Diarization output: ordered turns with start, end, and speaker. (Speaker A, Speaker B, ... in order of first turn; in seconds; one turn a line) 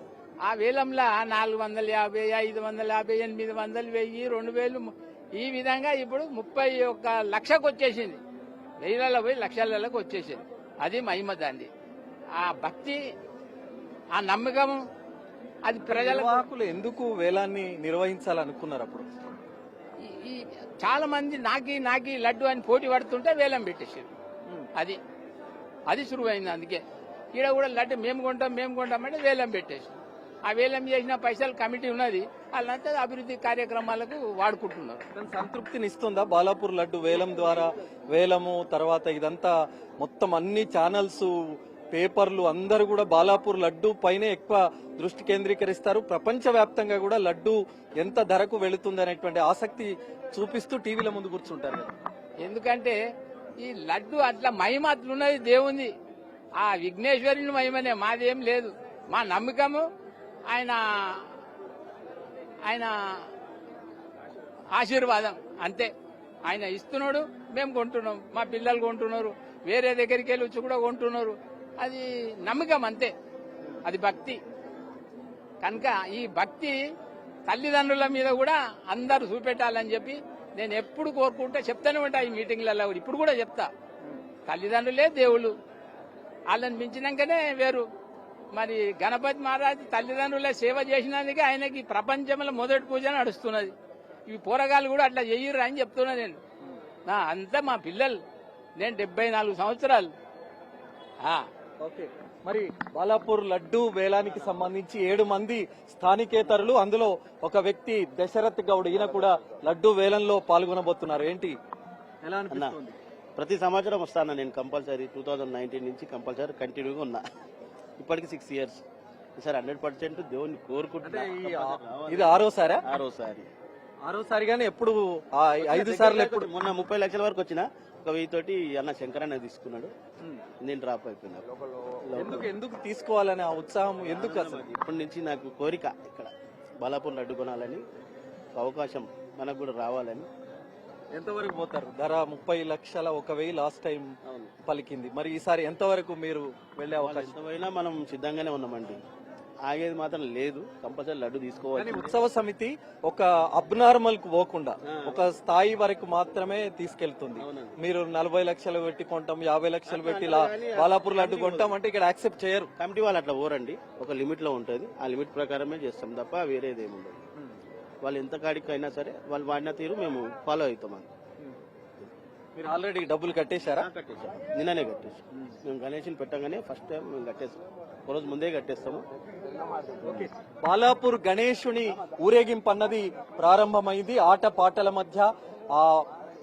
Speaker A: 0.4-8.2
Speaker A: 8.8-11.7
Speaker A: 12.4-13.0
Speaker A: 14.1-14.8
Speaker A: 15.6-16.5
Speaker B: 15.8-19.2
Speaker A: 20.0-24.1
Speaker A: 25.9-26.8
Speaker A: 27.3-35.0
Speaker B: 35.1-51.9
Speaker A: 52.4-53.0
Speaker A: 53.6-55.9
Speaker A: 56.6-59.9
Speaker A: 60.5-61.3
Speaker A: 62.6-63.2
Speaker A: 64.7-65.9
Speaker A: 66.5-73.1
Speaker A: 73.8-74.4
Speaker A: 75.6-76.8
Speaker A: 77.5-83.7
Speaker A: 84.5-85.5
Speaker A: 86.5-87.8
Speaker A: 88.5-93.7
Speaker A: 94.3-96.4
Speaker A: 97.0-98.2
Speaker A: 98.8-100.1
Speaker B: 101.8-111.5
Speaker C: 104.3-104.7
Speaker B: 112.2-113.0
Speaker C: 113.3-117.2
Speaker C: 118.0-118.8
Speaker C: 119.4-123.5
Speaker B: 121.0-122.8
Speaker B: 124.0-126.5
Speaker C: 125.6-129.9
Speaker C: 130.6-131.4
Speaker C: 132.0-132.5
Speaker B: 132.2-134.6
Speaker C: 134.1-137.8
Speaker C: 138.5-140.3
Speaker B: 141.1-147.3
Speaker C: 144.2-144.5
Speaker C: 147.0-149.0
Speaker C: 149.6-152.2
Speaker B: 151.8-162.7
Speaker C: 154.8-155.2
Speaker C: 157.4-157.8
Speaker C: 159.9-161.7
Speaker C: 162.8-167.2
Speaker C: 168.0-171.1
Speaker B: 172.6-173.9
Speaker C: 173.8-179.0
Speaker B: 180.0-186.0